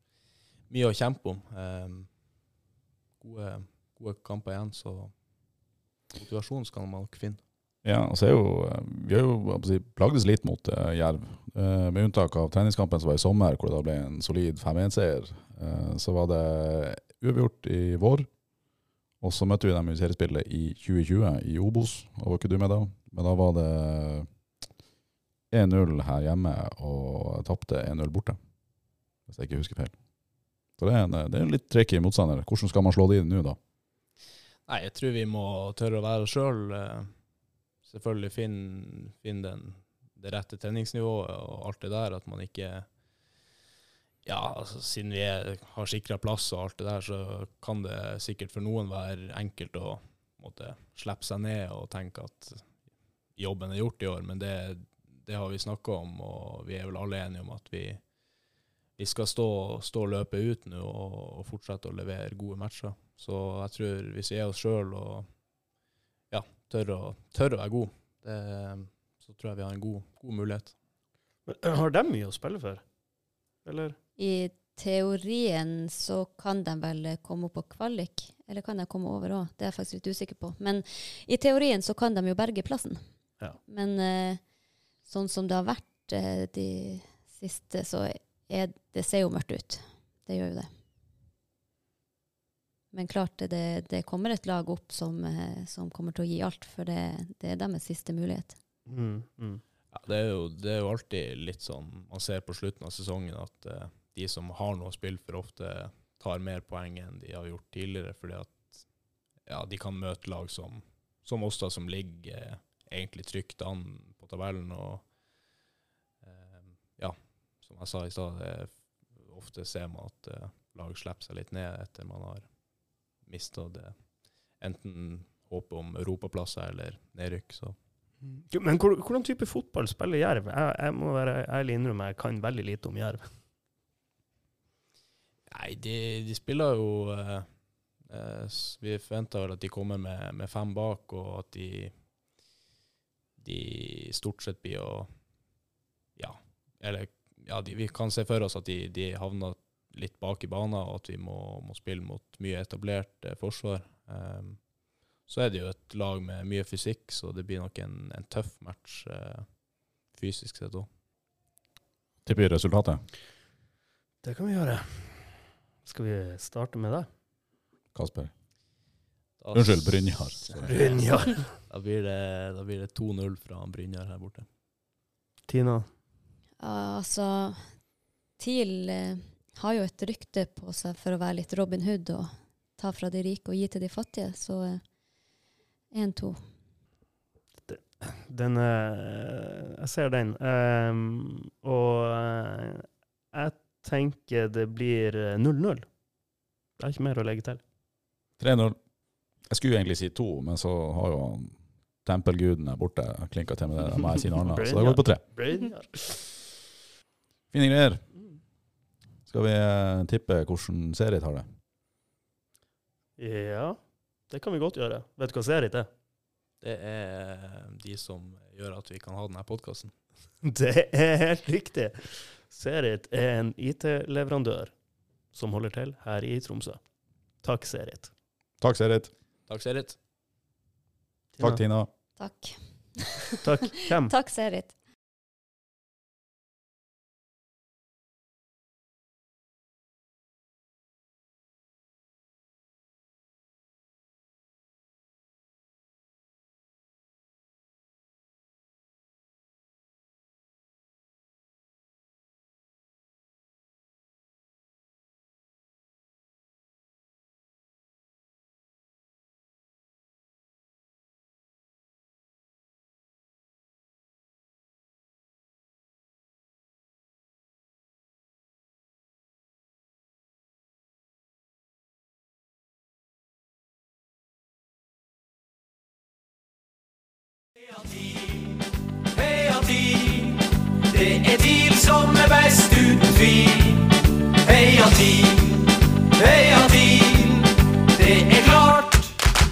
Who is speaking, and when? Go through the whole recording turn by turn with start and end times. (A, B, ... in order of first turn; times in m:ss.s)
0:00.7-0:02.1 A
0:03.2-0:05.1 A
0:06.1-0:07.4 A
0:07.8-0:18.3 B
0:19.2-0:24.3 B
0:25.5-0:28.4 B
0:29.3-0:29.9 B
0:30.8-0:33.6 B
0:34.7-0:37.1 A
0:37.8-0:42.9 A
0:44.2-0:52.6 A
0:53.4-0:58.0 A
0:59.0-1:05.3 A
1:06.3-1:10.7 A
1:11.5-1:12.8 C
1:13.6-1:14.0 C
1:14.2-1:23.0 D
1:23.6-1:24.4 D
1:25.0-1:30.7 D
1:32.9-1:38.6 D
1:38.9-1:39.6 C
1:39.9-1:48.8 A
1:49.4-1:55.0 A
1:56.2-2:02.5 A
2:03.2-2:03.9 A
2:04.6-2:07.8 A
2:08.2-2:13.2 C
2:15.5-2:17.5 A
2:18.1-2:21.9 A
2:23.4-2:25.1 A
2:26.2-2:34.6 A
2:35.3-2:39.5 A
2:40.1-2:40.9 A
2:42.2-2:43.0 B
2:44.2-2:47.1 C
2:47.9-2:48.3 B
2:49.4-2:54.4 A
2:49.5-2:50.7 B
2:50.6-2:51.5 C
2:55.5-2:55.9 C
2:56.6-2:57.7 D
2:58.4-3:04.8 D
3:05.9-3:06.4 D
3:07.7-3:15.9 C
3:16.8-3:17.6 C
3:18.4-3:18.8 B
3:19.5-3:25.2 B
3:24.4-3:26.4 C
3:27.5-3:28.0 B
3:29.3-3:31.4 B
3:33.2-3:33.8 C
3:34.3-3:35.9 C
3:36.6-3:39.9 A
3:40.4-3:44.7 C
3:45.3-3:46.8 C
3:47.4-3:48.1 C
3:48.6-3:49.1 B
3:49.5-3:50.0 A
3:51.4-3:51.6 C
3:51.4-3:51.9 B
3:52.2-3:54.7 D
3:53.4-3:54.1 C
4:37.6-4:49.2 E